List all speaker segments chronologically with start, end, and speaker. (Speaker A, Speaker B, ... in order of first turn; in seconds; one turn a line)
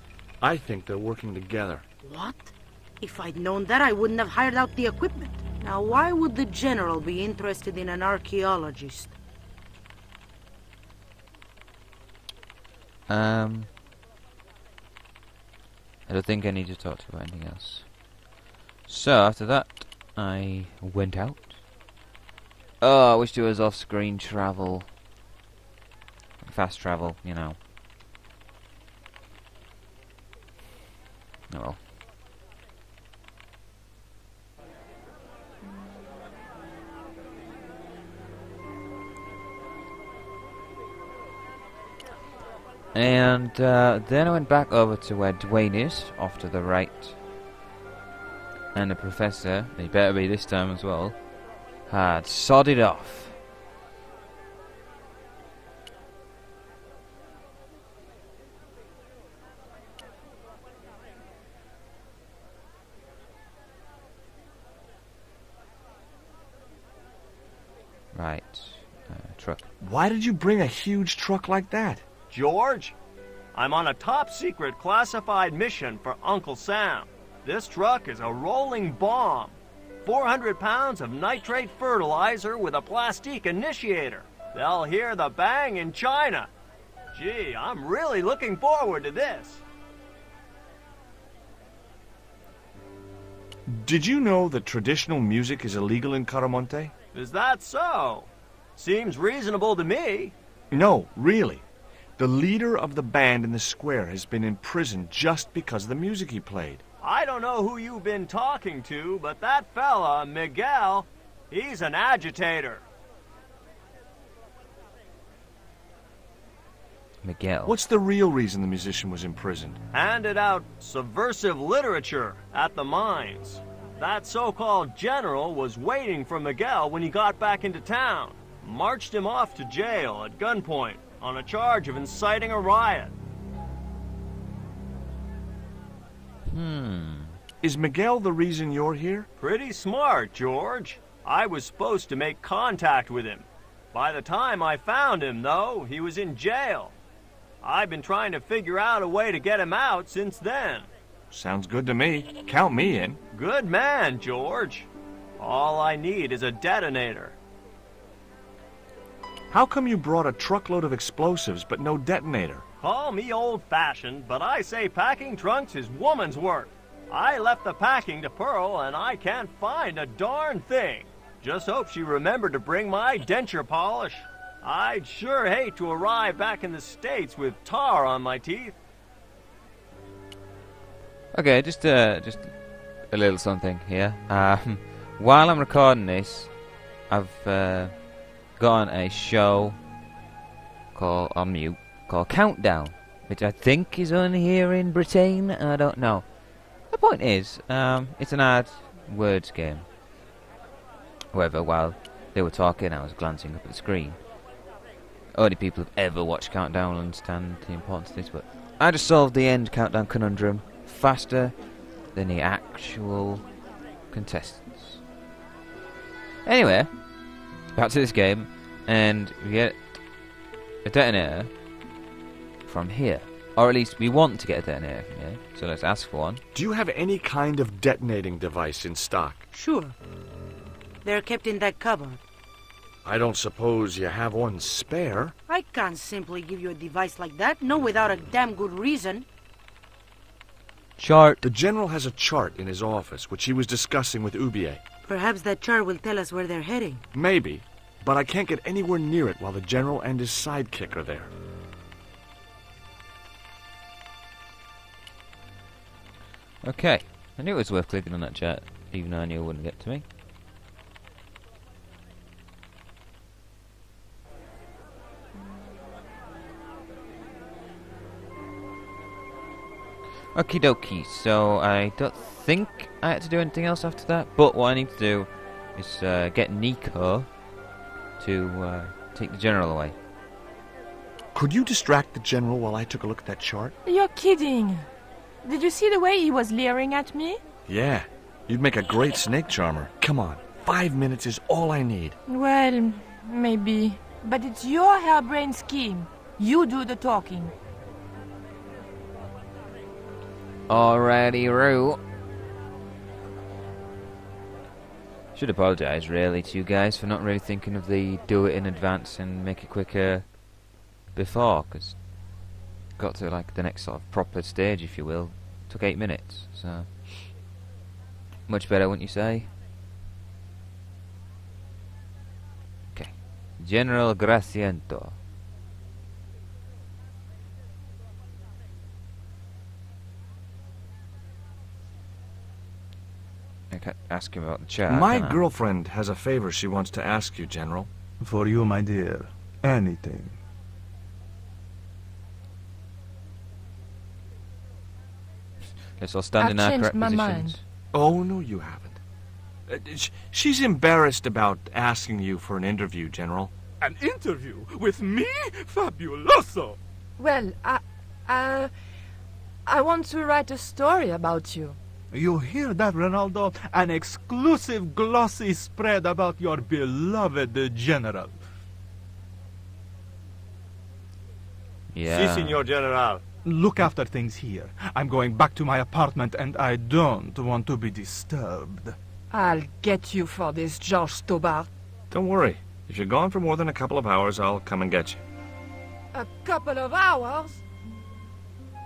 Speaker A: 0.4-1.8
Speaker B: 2.0-9.1
Speaker C: 13.1-13.7
Speaker C: 16.1-17.9
Speaker C: 18.9-21.6
Speaker C: 22.8-24.9
Speaker C: 26.4-27.6
Speaker C: 31.5-31.8
Speaker C: 42.9-47.2
Speaker C: 48.7-51.2
Speaker C: 51.9-53.4
Speaker C: 68.1-69.7
Speaker A: 69.8-72.0
Speaker D: 72.3-72.9
Speaker D: 73.5-86.5
Speaker D: 87.1-89.6
Speaker A: 93.7-96.9
Speaker D: 97.1-100.3
Speaker A: 100.7-101.6
Speaker A: 102.2-106.8
Speaker D: 107.0-112.8
Speaker C: 117.2-117.7
Speaker A: 117.6-119.8
Speaker D: 119.9-133.1
Speaker C: 136.5-137.4
Speaker A: 137.6-139.3
Speaker D: 139.4-146.9
Speaker D: 147.6-150.9
Speaker A: 151.3-153.2
Speaker D: 153.3-157.3
Speaker A: 159.5-162.6
Speaker D: 162.8-178.8
Speaker C: 181.3-186.5
Speaker C: 187.1-188.0
Speaker C: 188.5-189.8
Speaker C: 190.9-196.3
Speaker C: 196.8-199.9
Speaker C: 201.3-204.2
Speaker C: 205.3-213.5
Speaker C: 214.1-215.0
Speaker C: 216.4-217.0
Speaker C: 217.7-220.0
Speaker C: 220.8-221.5
Speaker C: 222.6-226.4
Speaker A: 226.5-229.4
Speaker B: 229.5-229.9
Speaker B: 231.0-232.2
Speaker A: 233.0-235.3
Speaker B: 235.5-239.2
Speaker C: 241.0-241.4
Speaker A: 241.4-244.8
Speaker B: 245.1-247.0
Speaker A: 247.1-251.3
Speaker C: 256.6-260.1
Speaker C: 270.3-277.3
Speaker C: 278.2-279.9
Speaker A: 281.3-283.7
Speaker E: 283.8-284.9
Speaker E: 285.4-287.4
Speaker A: 287.6-292.1
Speaker E: 292.3-297.5
Speaker C: 300.7-302.0
Speaker C: 305.3-310.3
Speaker C: 311.1-312.1
Speaker C: 312.9-317.0
Speaker C: 318.5-319.5
Speaker C: 322.9-325.2
Speaker C: 333.7-335.4
Speaker A: 334.9-337.9
Speaker F: 338.2-340.4
Speaker C: 345.9-347.6
Speaker E: 346.4-347.6
Speaker A: 347.9-349.0
Speaker A: 349.7-353.5
Speaker F: 353.8-356.8
Speaker E: 357.2-358.7
Speaker E: 359.6-361.8
Speaker F: 362.1-368.4
Speaker C: 371.9-372.6
Speaker D: 372.0-373.2
Speaker F: 373.4-379.0
Speaker E: 379.3-381.7
Speaker A: 382.1-385.2
Speaker E: 386.1-387.6